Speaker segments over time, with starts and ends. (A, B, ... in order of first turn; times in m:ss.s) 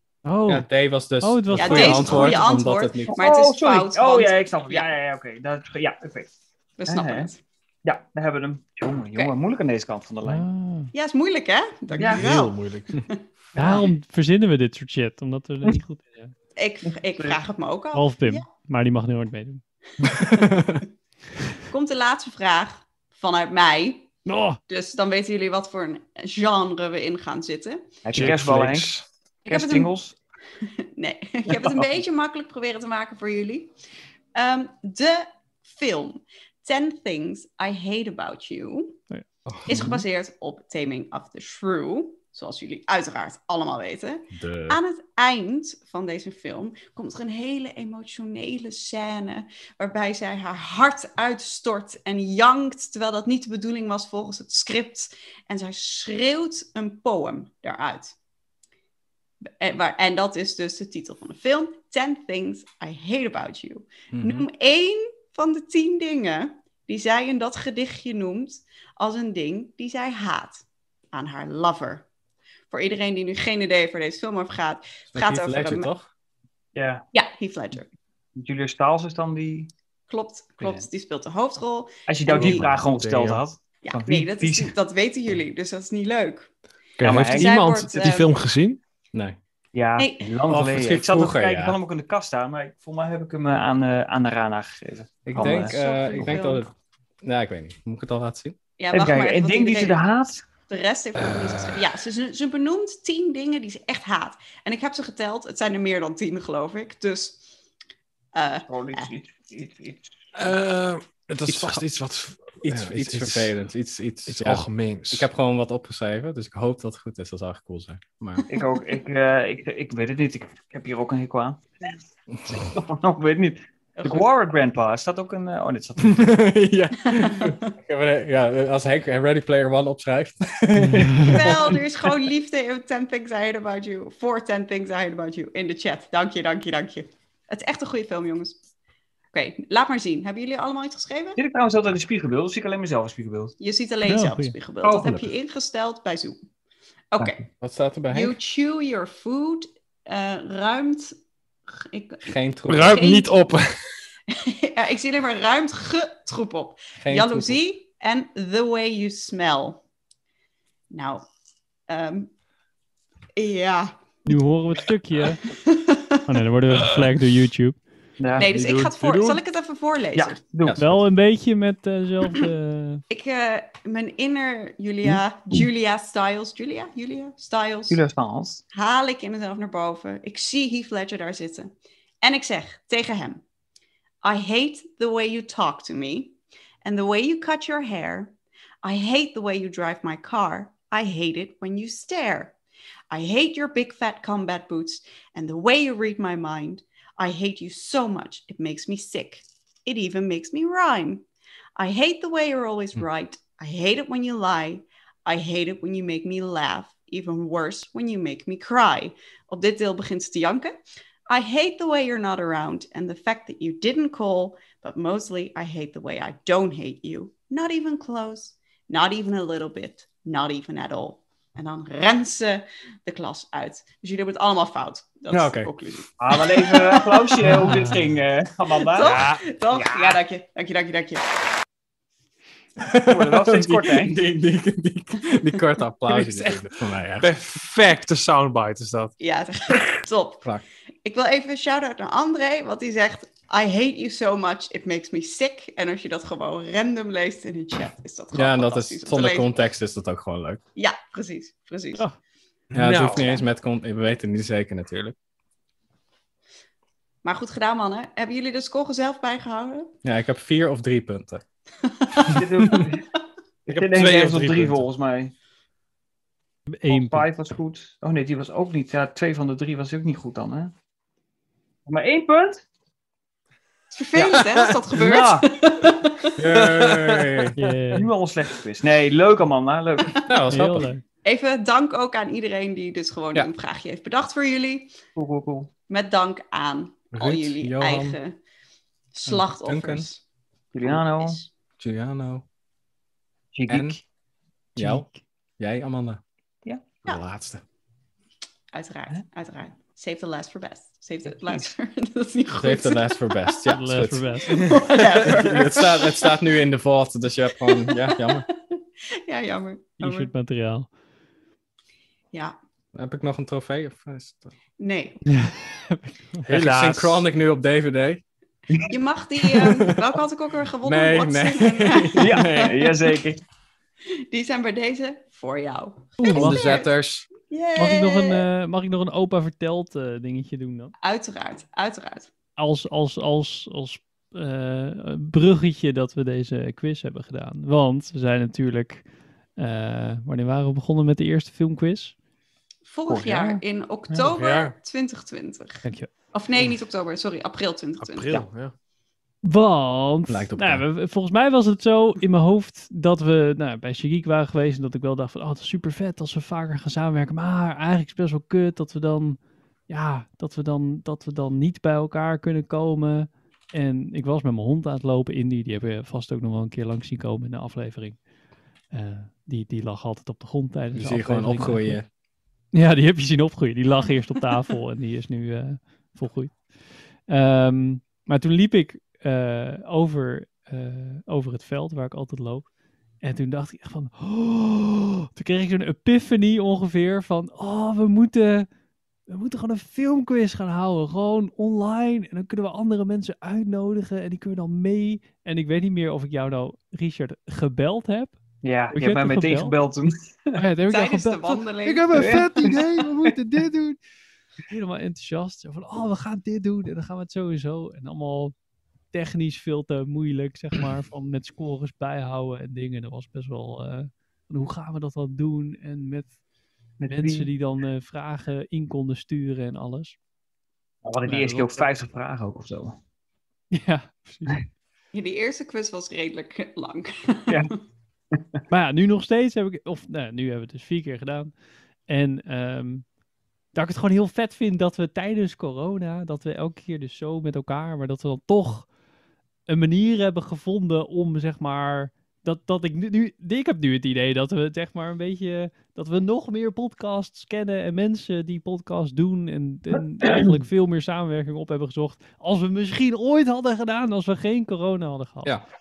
0:00.2-0:00.7 A
0:00.4-0:03.2 B
0:01.2-0:02.5 A
0:01.5-0:04.9 C
0:03.1-0:06.3 D
0:06.8-0:07.4 C
0:06.9-0:07.3 D
0:07.8-0:10.4 D
0:10.2-0:10.9 A
0:10.9-0:13.9 C
0:12.0-0:13.0 E
0:12.0-0:12.2 D
0:13.6-0:16.3 A
0:16.6-0:18.4 C
0:17.9-0:19.6 A
0:20.0-0:20.6 C
0:20.1-0:20.8 B
0:21.7-0:24.1 C
0:24.2-0:24.6 A
0:24.7-0:27.9 C
0:28.0-0:28.9 D
0:28.1-0:29.0 E
0:29.4-0:29.9 C
0:29.5-0:30.1 D
0:31.0-0:33.7 C
0:31.5-0:31.8 D
0:34.3-0:39.0 C
0:39.6-0:58.2 C
0:44.3-0:44.8 B
0:59.6-1:12.0 C
1:04.1-1:04.5 B
1:12.7-1:15.9 C
1:15.1-1:16.1 B
1:16.7-1:17.0 D
1:17.1-1:17.9 C
1:18.4-1:19.7 D
1:20.1-1:22.6 C
1:20.6-1:20.8 D
1:22.1-1:24.7 D
1:22.3-1:23.4 E
1:23.8-1:26.5 C
1:27.0-1:28.8 E
1:27.0-1:27.5 D
1:27.2-1:28.3 C
1:29.1-1:29.4 B
1:29.7-1:36.3 D
1:30.0-1:30.3 C
1:30.5-1:31.8 B
1:35.3-1:36.7 B
1:35.3-1:36.6 C
1:37.2-1:38.6 B
1:38.8-1:40.0 C
1:38.9-1:40.4 D
1:40.7-1:47.5 C
1:48.3-1:49.1 C
1:48.7-1:50.1 D
1:50.3-1:53.5 E
1:51.5-1:51.8 B
1:52.6-1:58.4 B
1:54.3-1:55.3 E
1:58.5-2:01.9 D
2:02.5-2:06.3 D
2:04.0-2:04.2 C
2:06.0-2:11.8 B
2:07.1-2:07.7 C
2:10.8-2:11.4 A
2:11.2-2:18.6 C
2:19.3-2:21.4 C
2:21.4-2:23.6 D
2:23.6-2:26.4 C
2:24.0-2:24.6 A
2:24.8-2:25.2 D
2:27.1-2:27.4 C
2:27.6-2:28.4 B
2:28.1-2:31.2 C
2:31.8-2:33.3 C
2:32.2-2:33.0 B
2:32.7-2:33.8 E
2:34.3-2:39.8 C
2:37.0-2:37.6 B
2:40.9-2:41.3 C
2:41.9-2:42.3 C
2:43.4-2:43.9 C
2:44.3-2:45.4 A
2:45.4-2:46.3 C
2:46.3-2:47.8 A
2:48.2-2:48.5 D
2:48.4-2:49.4 E
2:48.4-2:50.4 C
2:50.2-2:50.8 D
2:50.6-2:51.0 B
2:50.8-2:53.0 A
2:53.1-2:58.0 C
2:57.9-2:58.6 D
2:58.7-3:03.4 C
3:04.2-3:12.6 C
3:13.1-3:21.2 C
3:21.8-3:30.8 C
3:31.3-3:47.8 C
3:45.3-3:45.7 B
3:46.2-3:50.2 D
3:47.4-3:48.0 A
3:48.8-3:51.3 C
3:49.0-3:49.4 E
3:52.8-3:57.3 B
3:53.1-3:54.2 D
3:56.1-3:56.6 E
3:57.2-3:59.1 E
3:59.2-4:00.4 C
4:01.0-4:09.5 C
4:08.3-4:10.6 B
4:10.8-4:12.0 C
4:12.7-4:15.1 B
4:12.7-4:13.4 E
4:13.1-4:13.4 C
4:17.2-4:19.9 C
4:20.0-4:21.4 B
4:22.0-4:22.8 C
4:22.3-4:23.0 D
4:23.6-4:25.3 D
4:23.7-4:24.8 E
4:26.7-4:27.3 A
4:26.9-4:30.7 D
4:31.8-4:32.6 D
4:33.9-4:36.4 C
4:34.9-4:35.5 D
4:36.4-4:37.6 B
4:36.5-4:37.5 E
4:37.6-4:38.1 A
4:37.9-4:40.2 D
4:40.1-4:40.4 C
4:40.3-4:40.9 B
4:40.4-4:41.0 A
4:41.2-4:44.9 C
4:45.2-4:45.7 D
4:45.9-4:48.4 C
4:47.1-4:48.2 B
4:49.1-4:50.2 C
4:49.3-4:50.1 B
4:50.7-4:51.4 D
4:50.8-4:51.5 C
4:51.8-4:52.4 B
4:53.5-4:54.0 D
4:53.7-4:54.0 B
4:54.8-4:55.1 B
4:54.8-4:55.1 A
4:55.6-4:56.2 B
4:57.0-4:57.6 B
4:58.7-5:03.6 C
5:01.3-5:01.7 D
5:02.5-5:04.4 B
5:03.7-5:04.7 A
5:04.4-5:06.4 C
5:05.2-5:08.4 B
5:07.6-5:10.3 C
5:10.0-5:10.9 A
5:12.9-5:14.5 B
5:14.8-5:15.2 C
5:15.3-5:16.5 A
5:16.4-5:17.2 E
5:16.5-5:18.2 B
5:18.8-5:23.0 C
5:19.4-5:20.1 B
5:20.8-5:22.7 B
5:22.2-5:23.4 D
5:24.3-5:28.4 C
5:26.2-5:26.7 A
5:26.3-5:27.3 B
5:27.8-5:30.9 A
5:31.0-5:32.3 C
5:32.6-5:39.0 A
5:39.6-5:42.1 A
5:42.8-5:48.5 C
5:43.1-5:43.6 D
5:44.2-5:44.7 E
5:45.8-5:46.1 A
5:48.0-5:48.7 E
5:49.4-6:08.2 A
5:50.3-5:50.8 B
6:08.9-6:12.0 A
6:10.9-6:12.1 B
6:12.7-6:22.7 A
6:23.2-6:28.7 A
6:29.3-6:38.3 A
6:38.6-6:40.6 D
6:38.9-6:39.8 A
6:40.6-6:44.0 A
6:40.9-6:43.1 C
6:42.1-6:43.3 D
6:44.7-6:48.5 A
6:49.1-6:56.3 A
6:57.0-6:57.5 D
6:57.1-7:00.2 A
7:01.0-7:03.0 D
7:01.2-7:01.9 A
7:03.7-7:04.6 A
7:05.1-7:07.7 C
7:08.3-7:08.6 D
7:08.7-7:11.5 A
7:12.1-7:13.0 A
7:13.7-7:18.9 A
7:19.7-7:35.6 A